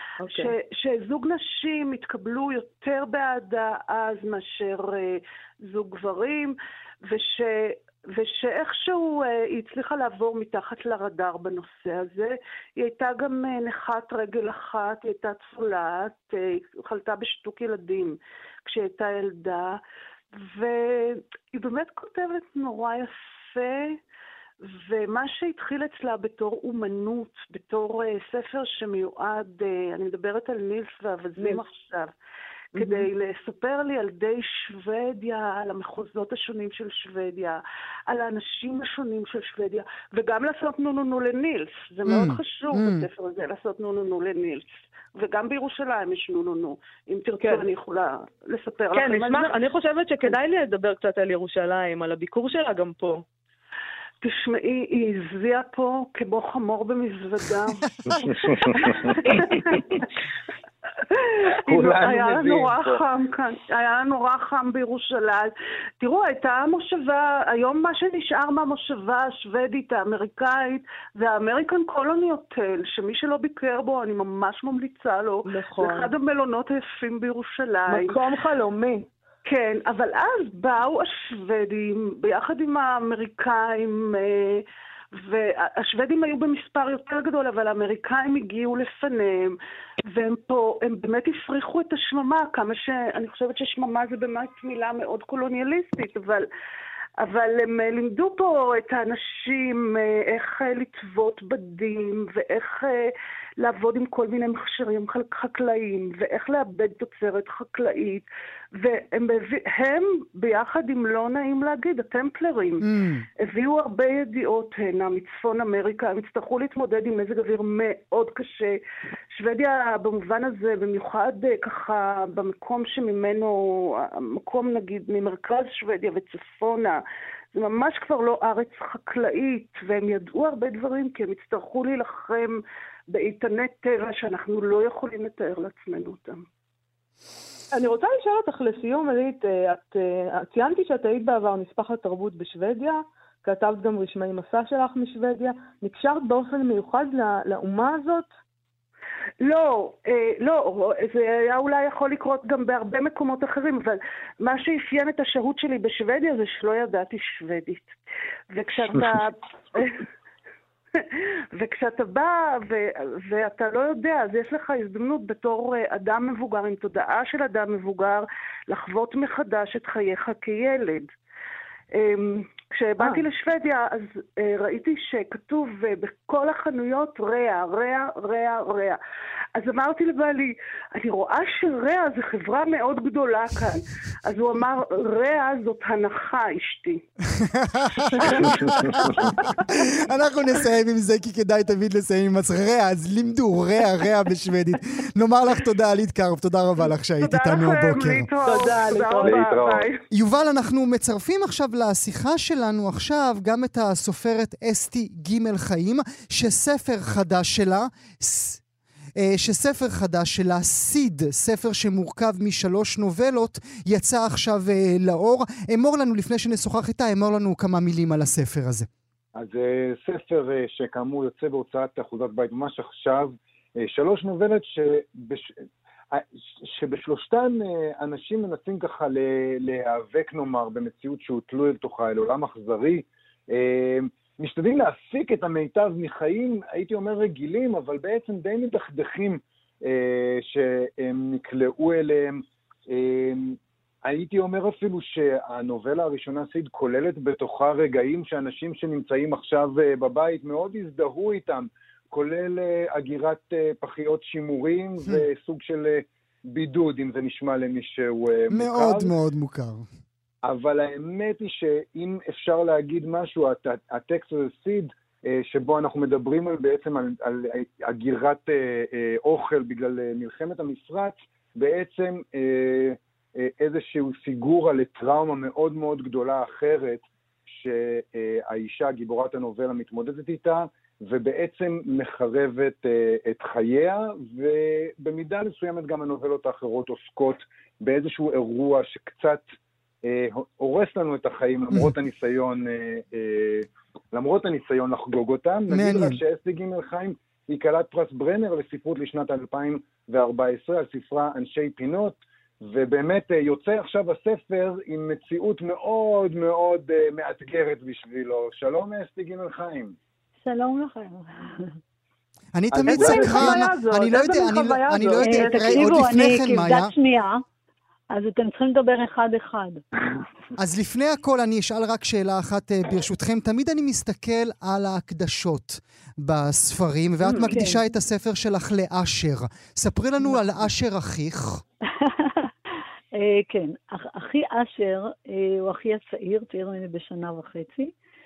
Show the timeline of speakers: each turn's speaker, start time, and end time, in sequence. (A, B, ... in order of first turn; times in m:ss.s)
0:00.2-0:00.5 A
0:00.2-0:19.8 B
0:20.4-0:24.0 B
0:24.6-0:32.1 B
0:32.7-0:33.1 A
0:32.8-0:49.6 B
0:42.1-0:43.1 C
0:48.9-0:53.2 A
0:54.2-1:00.1 B
0:58.1-1:00.0 D
1:01.1-1:18.2 B
1:01.6-1:03.0 D
1:15.4-1:16.1 A
1:17.9-1:19.1 A
1:19.4-1:29.6 B
1:30.1-1:36.5 B
1:37.2-1:52.9 B
1:52.8-1:53.2 C
1:53.4-1:58.8 B
1:59.3-2:07.0 B
2:07.5-2:16.4 B
2:17.7-2:28.3 A
2:29.4-2:37.9 B
2:38.5-2:40.1 B
2:41.0-2:51.1 B
2:51.9-2:59.0 B
2:59.6-3:07.0 B
3:07.3-3:18.3 C
3:08.4-3:09.1 D
3:17.2-3:20.0 B
3:18.4-3:19.4 A
3:19.2-3:19.8 D
3:20.1-3:28.6 C
3:29.2-3:38.9 C
3:39.4-4:19.1 D
4:18.5-4:19.8 C
4:20.4-4:49.4 D
4:50.0-5:10.0 D
4:55.7-4:56.2 C
5:10.4-5:11.8 E
5:12.5-5:16.9 C
5:12.7-5:13.6 D
5:12.9-5:16.0 A
5:15.2-5:17.4 E
5:18.1-5:19.8 E
5:20.6-5:31.6 C
5:27.2-5:27.7 A
5:27.5-5:27.8 E
5:32.0-5:32.5 E
5:33.1-5:37.9 E